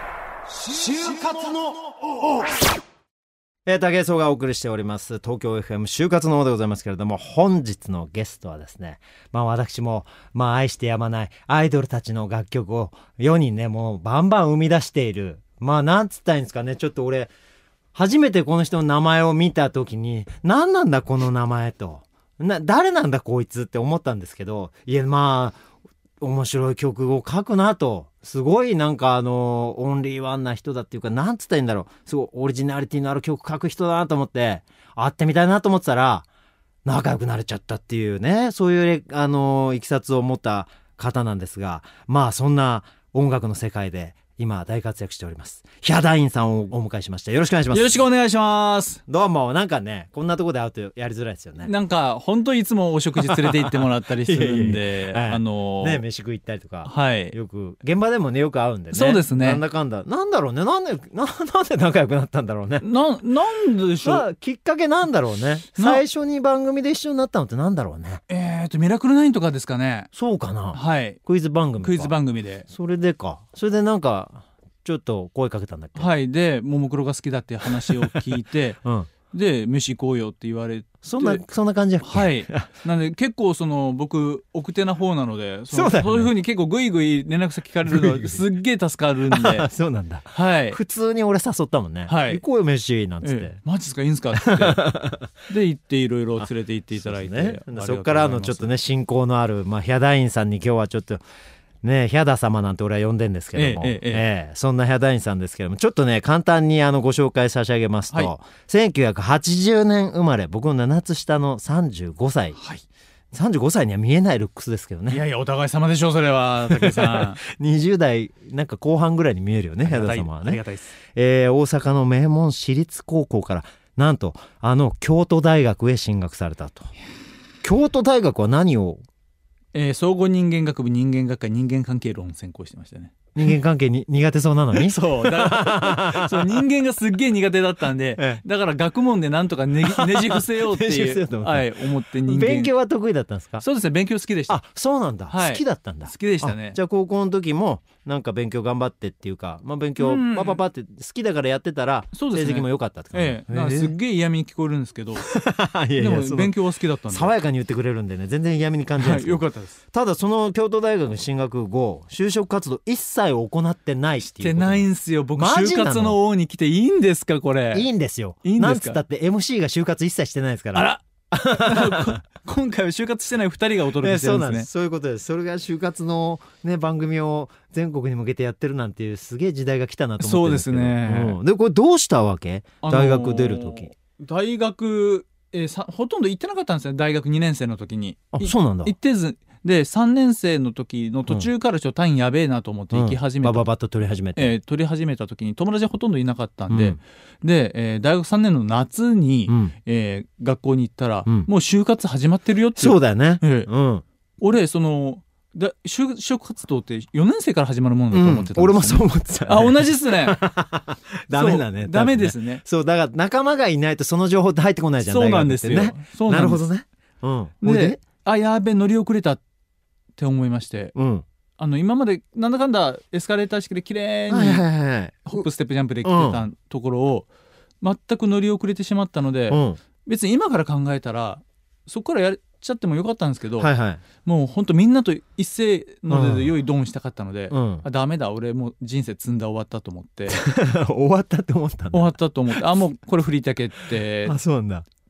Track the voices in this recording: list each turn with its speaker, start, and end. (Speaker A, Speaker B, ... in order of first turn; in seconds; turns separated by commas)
Speaker A: 0.6-2.4, Speaker A: 3.7-17.3, Speaker A: 17.9-25.6, Speaker A: 26.2-36.3, Speaker A: 36.9-48.0, Speaker B: 47.7-49.0, Speaker A: 49.1-51.7, Speaker B: 51.6-56.0, Speaker A: 53.2-62.8, Speaker B: 56.8-57.4, Speaker B: 58.9-59.6, Speaker B: 62.8-64.3, Speaker A: 64.0-68.2, Speaker B: 65.8-66.0, Speaker B: 68.3-70.1, Speaker A: 70.1-72.1, Speaker B: 70.7-71.2, Speaker B: 71.8-72.7, Speaker A: 72.7-76.1, Speaker B: 76.0-78.8, Speaker A: 77.9-78.2, Speaker A: 78.8-79.1, Speaker B: 79.3-81.4, Speaker A: 81.0-82.7, Speaker B: 82.0-89.7, Speaker A: 85.7-86.3, Speaker A: 87.9-88.4, Speaker A: 89.3-93.5, Speaker B: 90.3-90.8, Speaker B: 92.1-92.4, Speaker B: 93.2-94.9, Speaker A: 94.4-95.3, Speaker B: 95.5-98.8, Speaker A: 96.4-101.2, Speaker A: 101.8-112.6, Speaker B: 103.6-104.3, Speaker B: 112.6-112.8, Speaker A: 113.3-115.2, Speaker B: 115.1-117.4, Speaker A: 116.7-120.6, Speaker B: 119.8-120.9, Speaker A: 121.1-126.9, Speaker A: 127.6-129.0, Speaker B: 129.7-133.2, Speaker A: 133.3-136.6, Speaker B: 134.7-142.7, Speaker A: 138.2-138.4, Speaker A: 139.9-143.6, Speaker B: 143.6-144.6, Speaker A: 144.5-153.9, Speaker B: 145.3-146.8, Speaker B: 150.0-150.6, Speaker B: 152.1-155.3, Speaker A: 155.2-156.6, Speaker B: 156.0-157.3, Speaker A: 157.1-164.9, Speaker B: 159.0-159.8, Speaker B: 164.2-167.9, Speaker A: 165.4-166.2, Speaker A: 167.7-172.2, Speaker B: 168.4-169.0, Speaker B: 170.7-174.7, Speaker A: 174.0-183.9, Speaker B: 180.2-181.4, Speaker B: 182.8-193.7, Speaker A: 188.3-188.9, Speaker A: 192.9-194.5, Speaker B: 194.4-203.7, Speaker A: 196.7-197.0, Speaker A: 199.5-199.7, Speaker A: 202.8-204.0, Speaker B: 204.4-210.4, Speaker A: 208.1-218.0, Speaker B: 211.3-212.6, Speaker B: 215.0-216.6, Speaker B: 217.6-219.4, Speaker B: 220.2-220.9, Speaker A: 220.9-221.2, Speaker B: 221.6-224.6, Speaker A: 224.3-225.4, Speaker B: 225.3-227.3, Speaker A: 226.0-226.4, Speaker B: 227.8-233.7, Speaker A: 229.5-229.8, Speaker A: 233.6-234.0, Speaker B: 234.2-240.4, Speaker A: 236.1-236.5, Speaker A: 237.5-237.8, Speaker A: 240.3-242.6, Speaker B: 241.9-244.4, Speaker A: 244.2-244.9